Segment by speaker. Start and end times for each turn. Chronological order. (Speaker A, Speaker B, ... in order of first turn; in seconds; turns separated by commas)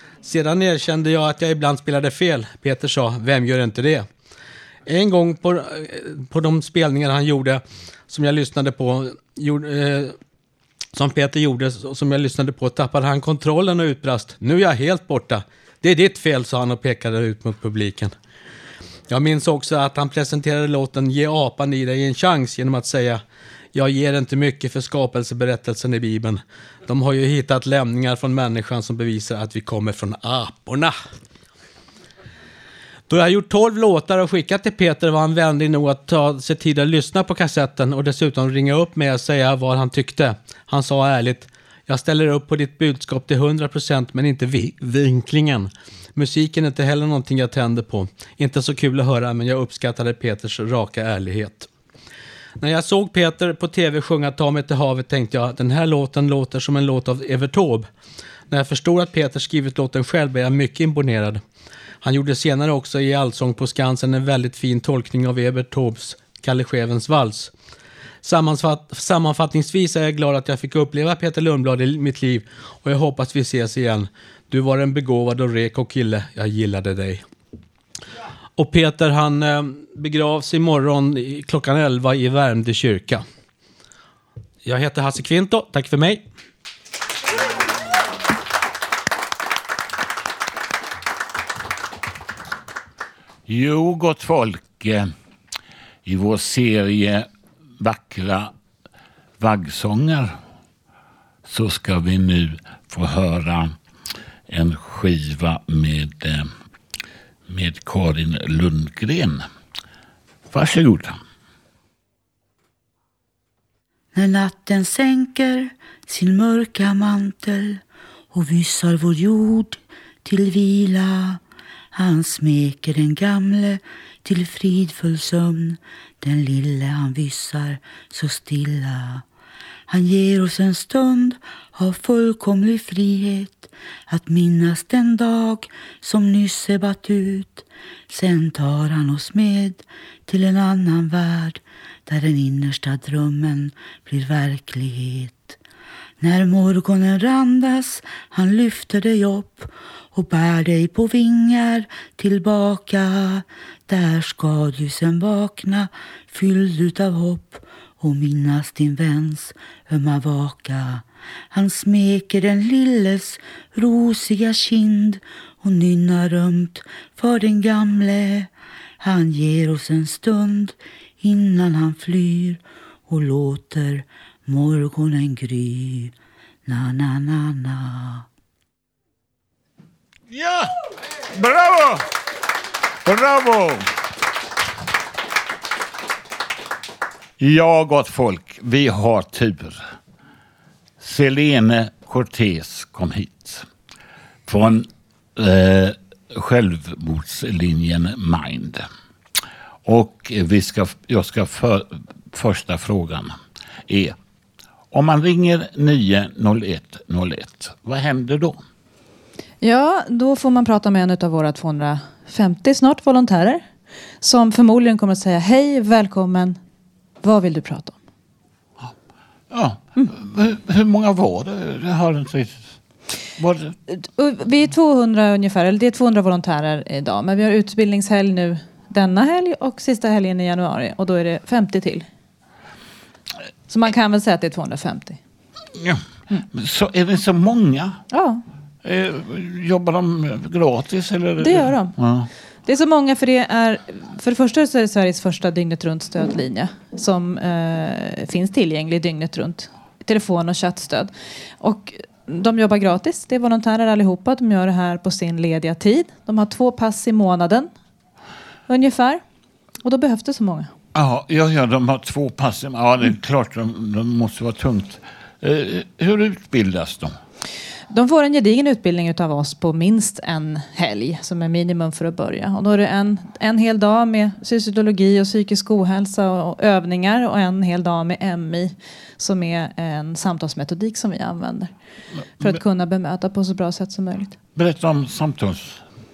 Speaker A: 0.2-4.0, Speaker A: 4.9-10.1, Speaker A: 10.9-18.1, Speaker A: 19.1-23.2, Speaker A: 23.7-30.9, Speaker A: 33.1-51.7, Speaker A: 52.6-57.9, Speaker A: 58.5-61.4, Speaker A: 62.0-67.5, Speaker A: 68.2-77.2, Speaker A: 78.6-83.2, Speaker A: 84.6-86.2, Speaker B: 93.5-95.1, Speaker B: 96.0-97.3, Speaker B: 97.8-98.5, Speaker B: 99.4-100.3, Speaker B: 101.4-103.7, Speaker B: 104.5-106.5, Speaker B: 107.5-109.5, Speaker B: 110.5-111.2, Speaker C: 114.1-121.4, Speaker C: 121.9-129.2, Speaker C: 129.9-145.6, Speaker C: 146.2-176.1, Speaker C: 176.7-178.3, Speaker B: 180.3-180.7, Speaker B: 181.3-182.0, Speaker B: 183.0-183.9, Speaker B: 187.4-189.8, Speaker B: 191.0-193.7, Speaker B: 194.5-198.9, Speaker B: 199.8-203.3, Speaker B: 203.9-204.1, Speaker B: 204.9-208.6, Speaker D: 209.6-213.6, Speaker D: 214.2-216.6, Speaker D: 217.2-217.9, Speaker B: 219.5-222.8, Speaker B: 223.4-223.8, Speaker D: 223.9-232.1, Speaker D: 233.7-235.2, Speaker B: 235.7-238.0, Speaker D: 238.1-238.4, Speaker B: 238.8-242.3, Speaker D: 241.4-241.9, Speaker D: 242.7-257.7, Speaker D: 258.7-259.2, Speaker D: 259.8-260.7, Speaker B: 260.9-267.1, Speaker D: 267.9-281.7, Speaker D: 282.4-284.3, Speaker B: 284.6-285.8